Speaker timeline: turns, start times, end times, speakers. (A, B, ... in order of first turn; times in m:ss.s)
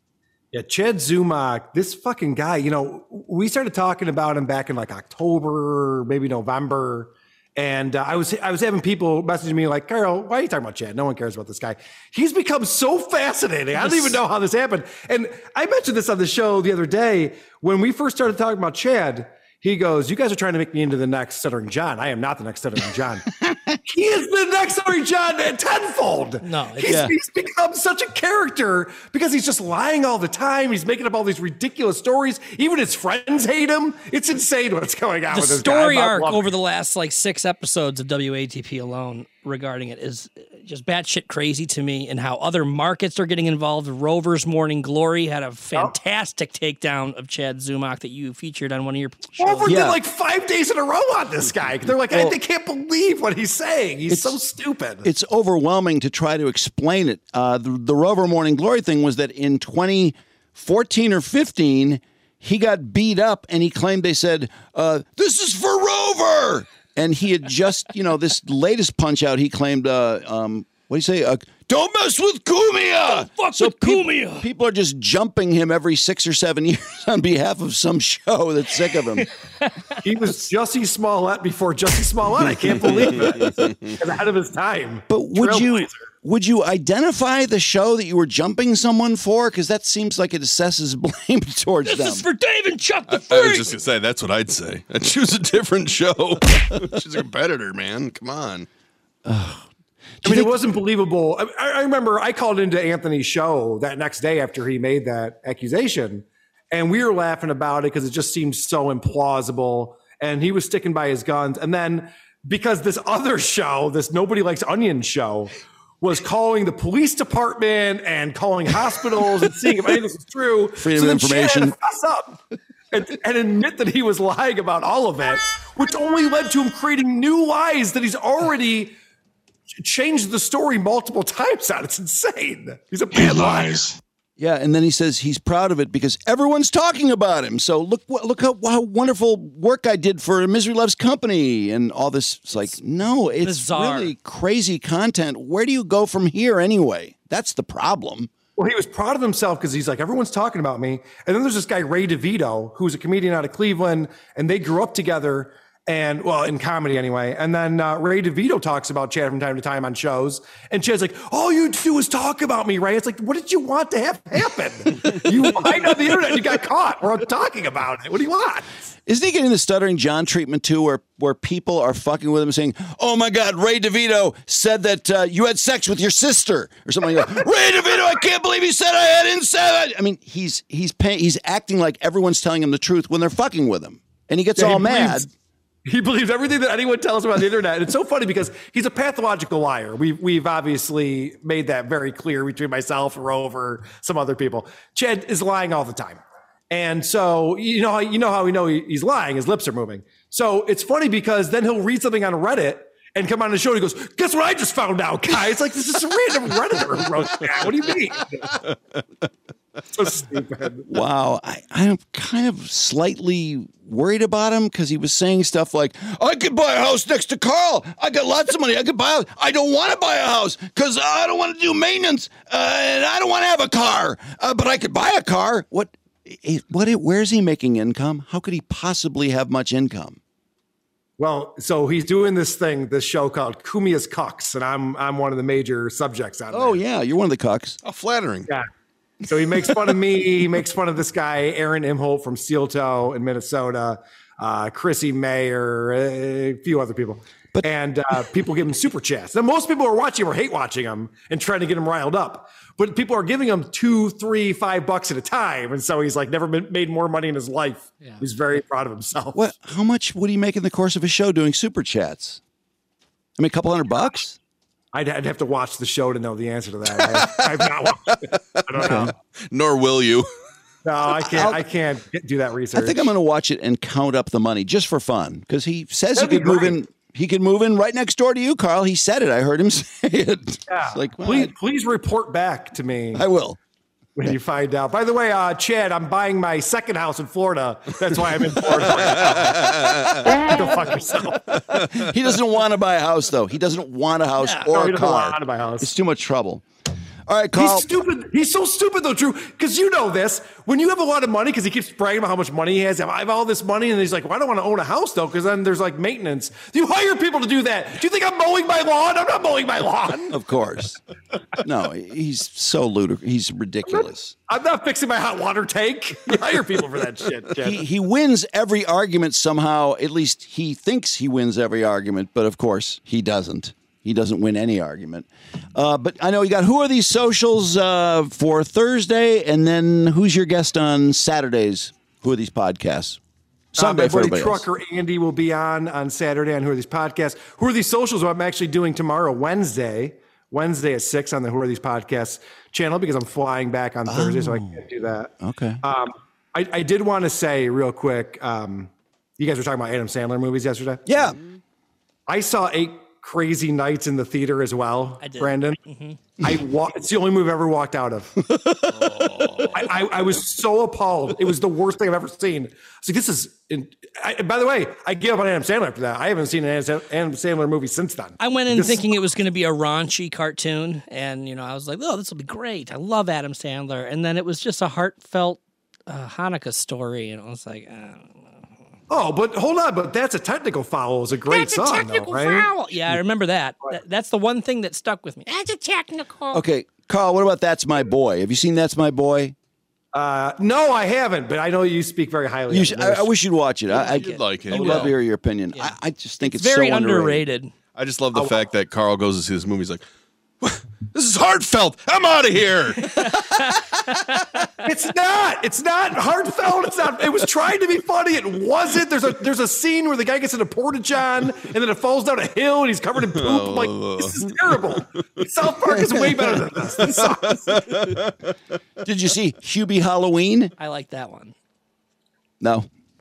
0:00.5-0:23.3 A
0:13.8-0:14.2 B
0:23.8-0:36.4 A
0:26.4-0:27.1 B
0:35.3-0:49.8 B
0:49.4-0:55.0 A
0:49.6-0:50.0 C
0:52.1-0:52.4 C
0:54.1-0:54.4 C
0:55.0-1:19.3 C
1:13.0-1:14.4 B
1:20.0-1:26.0 A
1:22.8-1:23.7 D
1:25.1-1:32.2 C
1:31.8-1:33.8 B
1:33.1-1:38.7 D
1:39.2-1:39.6 C
1:40.2-1:40.6 C
1:40.2-2:02.4 A
2:00.8-2:01.7 C
2:02.9-2:08.9 A
2:09.8-2:13.8 A
2:14.4-2:28.3 C
2:23.4-2:24.1 B
2:28.6-2:48.7 A
2:49.0-3:05.3 C
3:04.6-3:05.3 A
3:05.8-3:28.6 A
3:29.9-3:30.8 A
3:30.9-3:50.2 C
3:51.2-3:56.8 A
3:56.5-3:57.8 C
3:57.8-3:58.5 D
3:59.2-4:19.4 A
4:19.3-4:22.4 C
4:23.4-4:24.4 C
4:24.9-4:29.1 A
4:27.1-4:27.5 D
4:28.7-4:30.2 D
4:30.8-4:33.1 A
4:31.2-4:31.6 C
4:32.7-4:41.5 C
4:36.1-4:36.8 A
4:40.7-4:43.2 A
4:43.1-4:43.6 C
4:44.2-4:51.4 A
4:49.1-4:50.2 D
4:51.7-4:56.6 C
4:54.4-4:54.6 B
4:54.7-4:55.9 A
4:57.3-4:57.9 C
4:57.5-5:10.4 A
5:10.3-5:11.0 C
5:11.6-5:14.3 C
5:13.9-5:17.8 A
5:17.6-5:33.2 C
5:33.8-5:34.6 C
5:33.8-5:45.3 A
5:44.0-5:44.8 C
5:45.4-5:45.8 C
5:45.8-5:51.0 A
5:51.0-5:51.4 C
5:52.3-5:55.8 A
5:55.2-5:56.2 B
5:56.4-5:58.3 A
5:59.0-5:59.7 D
5:59.7-6:09.1 A
6:08.4-6:18.3 B
6:19.1-6:22.7 A
6:21.4-6:26.6 B
6:26.5-6:29.5 C
6:30.1-6:33.3 A
6:32.7-6:37.4 C
6:33.9-6:35.2 D
6:34.7-6:35.1 A
6:35.7-6:37.7 B
6:37.9-6:40.0 D
6:40.6-6:44.0 D
6:43.2-6:43.5 B
6:44.8-6:58.0 A
6:53.3-6:55.0 D
6:57.0-6:58.3 D
6:59.0-7:00.7 C
7:00.8-7:01.5 B
7:02.6-7:02.9 C